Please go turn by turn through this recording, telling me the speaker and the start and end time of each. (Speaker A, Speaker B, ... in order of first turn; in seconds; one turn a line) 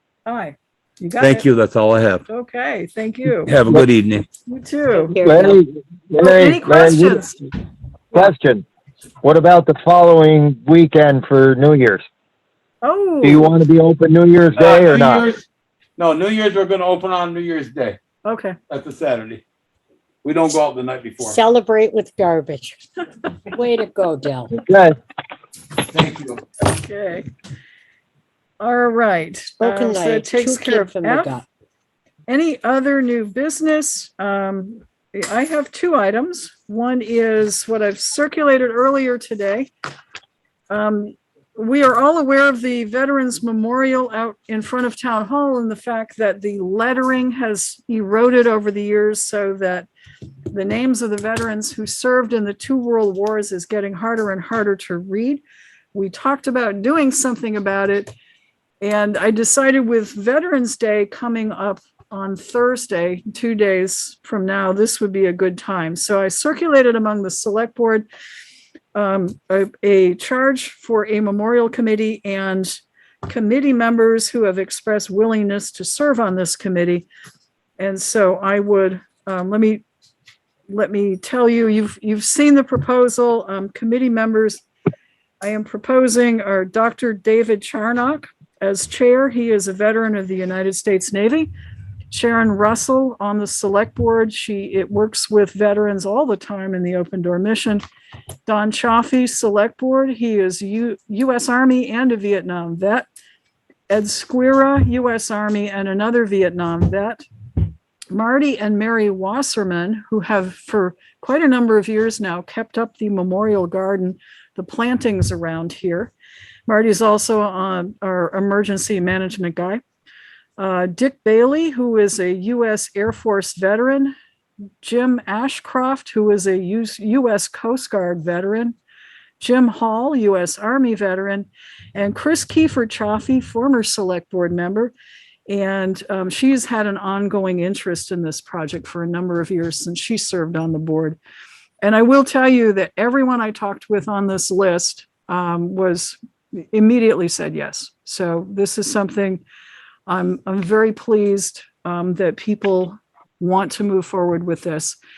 Speaker A: 0.2-1.4
Speaker B: 1.2-2.2
Speaker A: 2.3-3.5
Speaker B: 3.5-4.2
Speaker A: 4.5-5.2
Speaker C: 4.9-5.6
Speaker D: 5.2-7.3
Speaker A: 6.2-7.4
Speaker D: 8.1-8.7
Speaker D: 9.2-12.0
Speaker A: 12.8-13.5
Speaker D: 13.2-15.3
Speaker B: 14.5-18.0
Speaker A: 18.2-18.6
Speaker B: 18.7-19.4
Speaker B: 20.2-21.4
Speaker C: 21.2-22.8
Speaker C: 23.5-24.5
Speaker D: 24.5-25.0
Speaker B: 25.9-26.4
Speaker A: 26.8-27.3
Speaker A: 28.6-31.3
Speaker C: 29.6-31.4
Speaker A: 32.3-39.7
Speaker A: 40.7-49.9
Speaker A: 50.5-55.4
Speaker A: 55.9-58.1
Speaker A: 58.8-68.0
Speaker A: 68.9-77.1
Speaker A: 77.8-79.8
Speaker A: 80.7-84.6
Speaker A: 85.4-91.5
Speaker A: 92.1-97.8
Speaker A: 98.5-103.1
Speaker A: 103.9-107.2
Speaker A: 108.1-116.1
Speaker A: 116.7-119.8
Speaker A: 120.6-124.1
Speaker A: 124.8-128.8
Speaker A: 129.4-134.9
Speaker A: 135.5-141.2
Speaker A: 141.8-149.4
Speaker A: 150.1-155.0